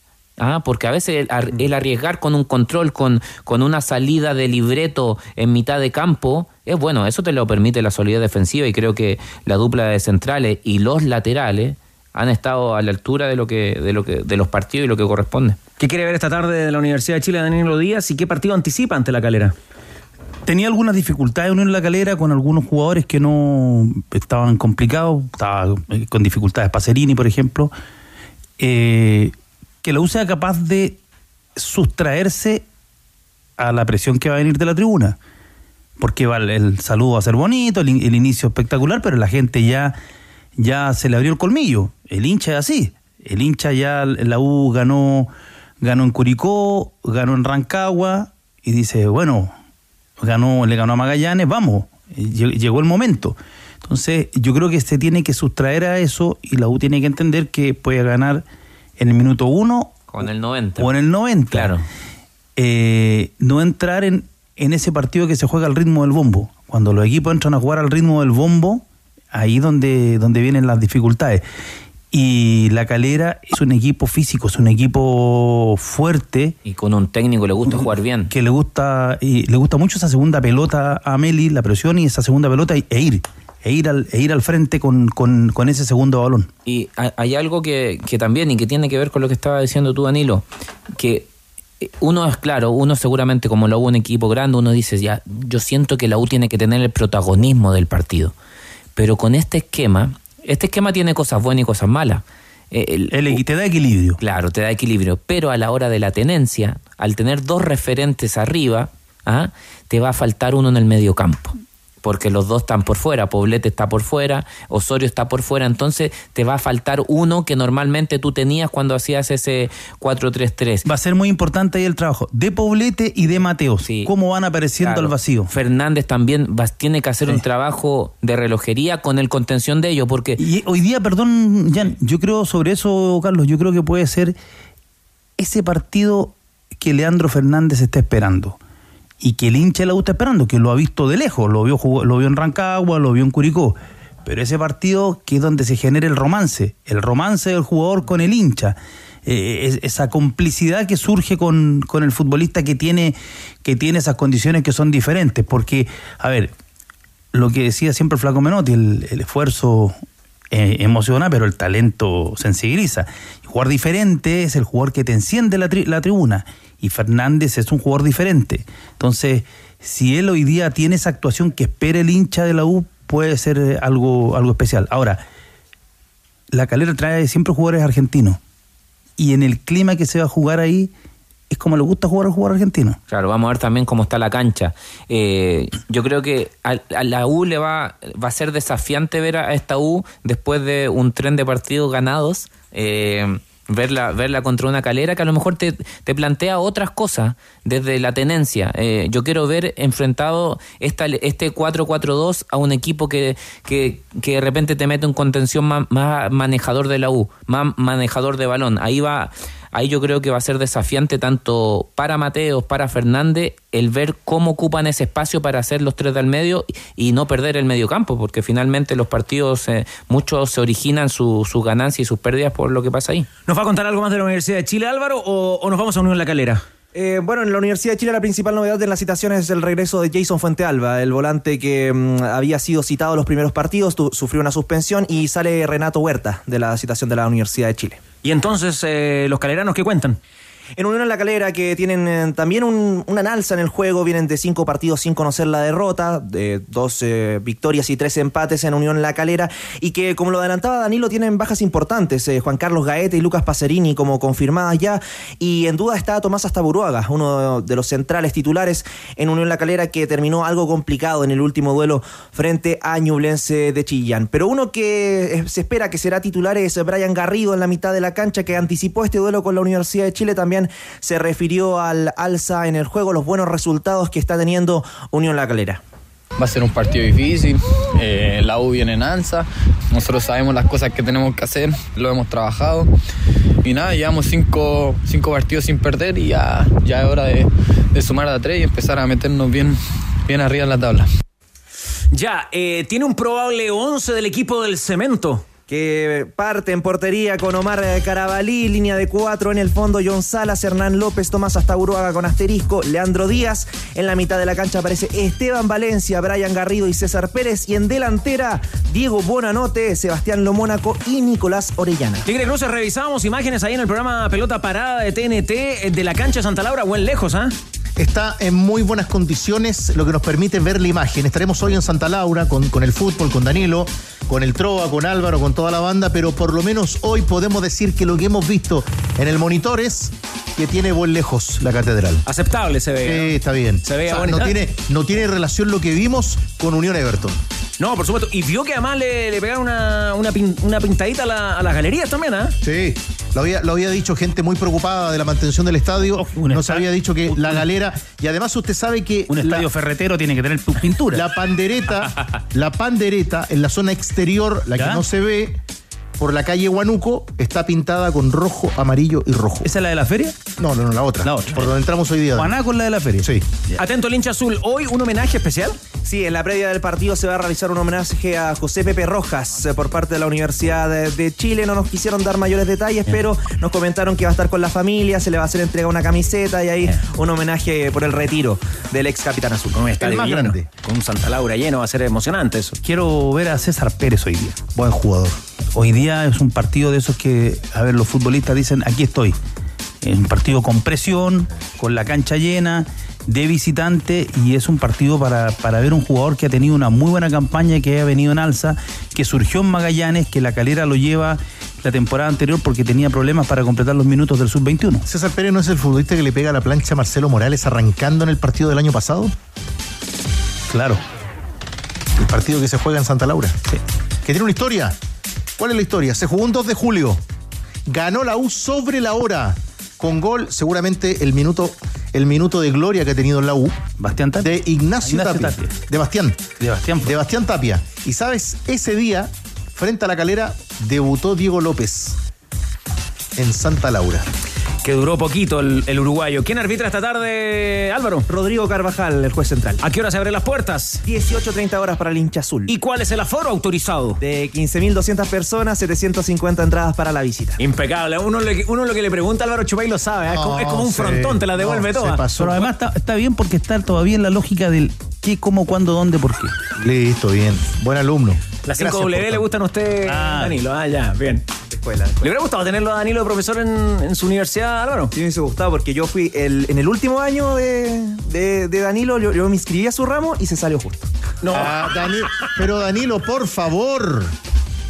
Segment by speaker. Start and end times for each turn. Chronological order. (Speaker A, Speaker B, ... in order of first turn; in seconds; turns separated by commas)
Speaker A: 0.4-15.6, Speaker B: 15.8-19.5, Speaker C: 20.4-27.7, Speaker C: 28.6-31.0, Speaker C: 31.6-32.6, Speaker C: 33.6-35.2, Speaker C: 36.0-40.0, Speaker C: 40.6-49.5, Speaker C: 50.2-58.4, Speaker C: 59.0-60.0, Speaker A: 60.1-60.9, Speaker C: 60.8-61.7, Speaker A: 61.5-61.8, Speaker C: 62.5-71.4, Speaker C: 72.1-76.5, Speaker A: 76.6-78.3, Speaker C: 77.6-86.5, Speaker A: 86.7-90.4, Speaker A: 91.0-91.3, Speaker A: 91.8-98.3, Speaker A: 99.0-103.4, Speaker C: 103.1-104.2, Speaker A: 104.2-120.8, Speaker C: 120.8-125.5, Speaker A: 123.8-124.1, Speaker A: 124.8-130.4, Speaker C: 130.4-134.3, Speaker C: 135.4-138.6, Speaker C: 139.2-156.5, Speaker C: 157.3-160.0, Speaker C: 160.5-175.2, Speaker C: 176.5-178.4, Speaker C: 179.2-180.9, Speaker C: 181.5-183.0, Speaker A: 183.1-223.3, Speaker B: 223.5-226.6, Speaker D: 226.9-238.1, Speaker B: 238.2-240.2, Speaker D: 240.8-275.8, Speaker E: 276.4-282.9, Speaker E: 283.6-291.1, Speaker B: 292.1-295.5, Speaker D: 295.7-312.2, Speaker B: 312.2-317.5, Speaker F: 318.0-332.2, Speaker B: 332.2-334.6, Speaker F: 333.0-337.4, Speaker B: 337.8-342.5, Speaker F: 342.6-349.7, Speaker C: 346.1-347.6, Speaker C: 349.3-351.2, Speaker F: 351.1-355.6, Speaker C: 354.7-355.0, Speaker F: 356.2-359.7, Speaker C: 359.6-360.3, Speaker F: 360.6-362.6, Speaker C: 361.2-361.7, Speaker C: 362.3-363.3, Speaker B: 363.8-365.8, Speaker D: 366.0-379.8, Speaker B: 379.7-382.8, Speaker F: 380.0-380.7, Speaker C: 382.8-384.6, Speaker F: 384.8-385.4, Speaker C: 385.7-389.4, Speaker C: 390.0-405.0, Speaker F: 405.1-409.3, Speaker C: 410.7-411.0, Speaker F: 412.2-413.6, Speaker F: 414.2-414.9, Speaker F: 415.6-417.2, Speaker F: 417.9-423.8, Speaker C: 424.0-425.7, Speaker F: 424.4-426.4, Speaker C: 426.6-427.1, Speaker F: 427.0-432.2, Speaker F: 433.4-434.2, Speaker B: 434.8-438.2, Speaker D: 438.3-439.8, Speaker B: 439.8-441.0, Speaker D: 441.0-442.7, Speaker B: 442.7-444.2, Speaker D: 444.2-447.6, Speaker B: 447.6-452.5, Speaker F: 450.3-452.6, Speaker C: 452.4-456.5, Speaker F: 456.8-458.6, Speaker B: 458.6-461.4, Speaker C: 460.1-460.6, Speaker D: 461.7-462.3, Speaker B: 462.2-465.1, Speaker D: 465.1-471.1, Speaker B: 471.4-471.9, Speaker F: 471.5-474.3